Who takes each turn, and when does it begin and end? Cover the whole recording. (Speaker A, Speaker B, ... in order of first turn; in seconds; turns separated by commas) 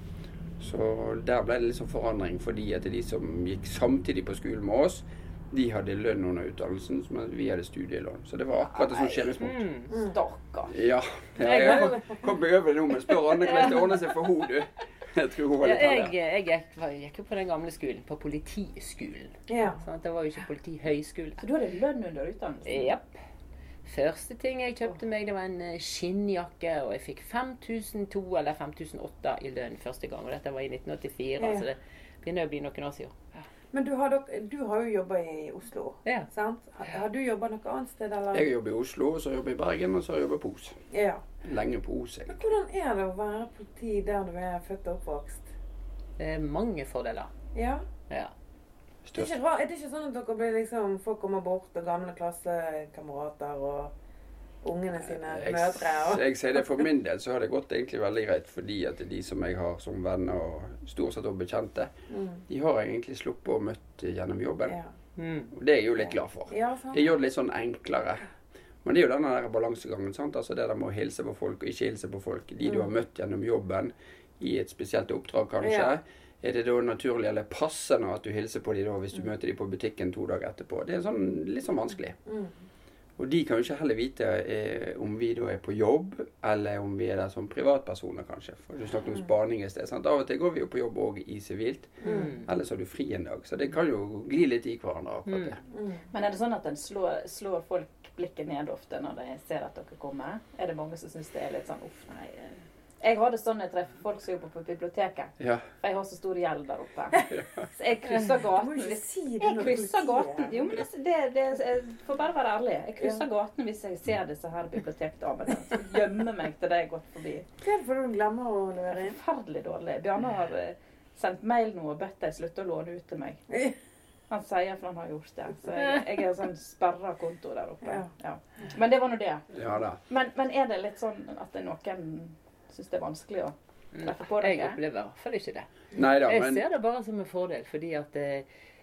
Speaker A: 0.6-9.6, Speaker B: 8.7-9.3, Speaker C: 9.4-9.9, Speaker D: 9.9-10.1, Speaker B: 9.9-10.7, Speaker A: 10.7-16.1, Speaker C: 11.4-12.0, Speaker C: 13.3-14.0, Speaker C: 15.6-21.4, Speaker D: 19.5-19.8, Speaker B: 21.4-22.9, Speaker C: 22.6-23.2, Speaker C: 23.8-33.2, Speaker D: 31.4-31.6, Speaker D: 33.7-38.5, Speaker A: 38.3-40.8, Speaker D: 40.9-41.2, Speaker A: 41.4-42.4, Speaker D: 42.3-45.5, Speaker C: 46.2-47.3, Speaker D: 47.5-47.8, Speaker A: 49.0-49.4, Speaker D: 49.1-53.9, Speaker D: 54.6-56.2, Speaker A: 55.1-61.9, Speaker D: 62.1-62.4, Speaker A: 62.5-64.8, Speaker C: 65.2-65.5, Speaker A: 65.5-68.2, Speaker D: 66.0-67.0, Speaker A: 68.8-82.2, Speaker D: 75.6-75.9, Speaker D: 82.2-82.5, Speaker A: 83.2-95.6, Speaker D: 92.0-92.3, Speaker C: 92.0-92.5, Speaker C: 95.3-95.6, Speaker D: 95.7-96.0, Speaker B: 96.1-117.5, Speaker A: 105.4-105.7, Speaker A: 107.3-107.7, Speaker D: 108.4-110.7, Speaker D: 117.6-119.2, Speaker B: 118.9-123.4, Speaker B: 124.3-129.4, Speaker A: 129.5-130.0, Speaker B: 130.1-134.8, Speaker C: 133.9-135.7, Speaker A: 135.9-136.6, Speaker C: 136.2-138.5